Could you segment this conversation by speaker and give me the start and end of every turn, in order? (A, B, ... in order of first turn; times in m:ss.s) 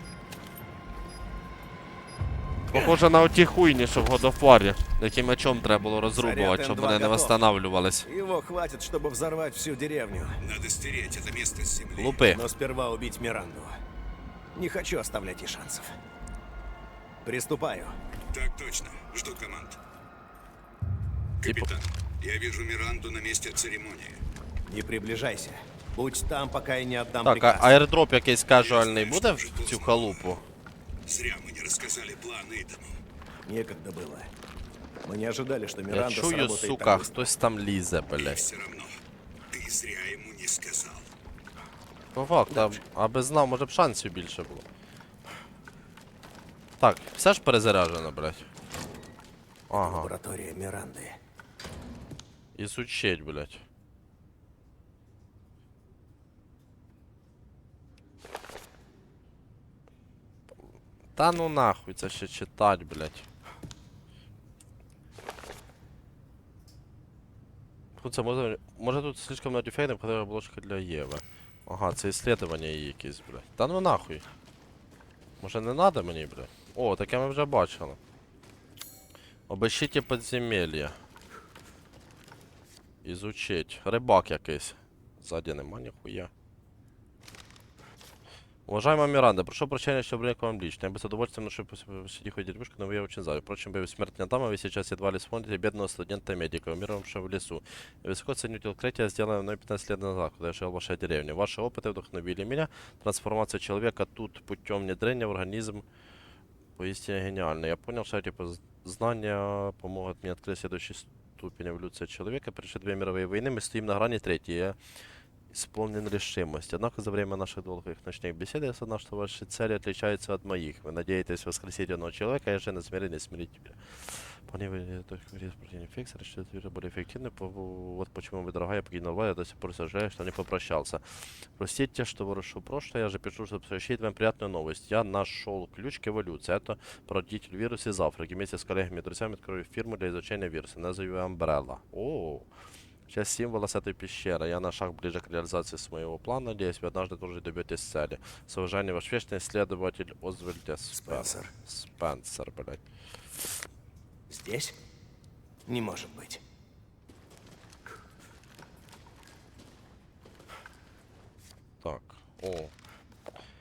0:02.7-0:08.1 A
0:06.2-0:07.4 B
0:08.0-0:10.4 B
0:10.4-0:12.2 C
0:12.0-0:12.4 A
0:12.3-0:13.8 B
0:14.6-0:15.9 B
0:17.2-0:18.0 B
0:18.3-0:19.8 C
0:21.4-0:24.2 C
0:24.7-0:27.8 B
0:27.2-0:30.4 A
0:28.5-0:30.2 C
0:31.1-0:33.0 C
0:33.5-0:34.3 B
0:35.0-0:37.3 B
0:35.9-0:38.4 A
0:38.2-0:38.9 C
0:39.5-0:41.1 C
0:42.2-0:44.6 A
0:42.5-0:42.8 B
0:46.8-0:48.5 A
0:49.7-0:50.1 A
0:49.7-0:51.2 B
0:52.6-0:53.6 A
1:01.2-1:03.3 A
1:08.0-1:14.2 A
1:15.4-1:18.0 A
1:19.5-1:21.0 A
1:23.0-1:26.3 A
1:28.7-1:45.8 A
1:46.8-1:54.8 A
1:55.5-2:22.5 A
2:23.1-2:32.8 A
2:30.9-2:31.5 B
2:34.3-2:34.8 B
2:35.7-2:36.4 B
2:41.8-2:42.7 A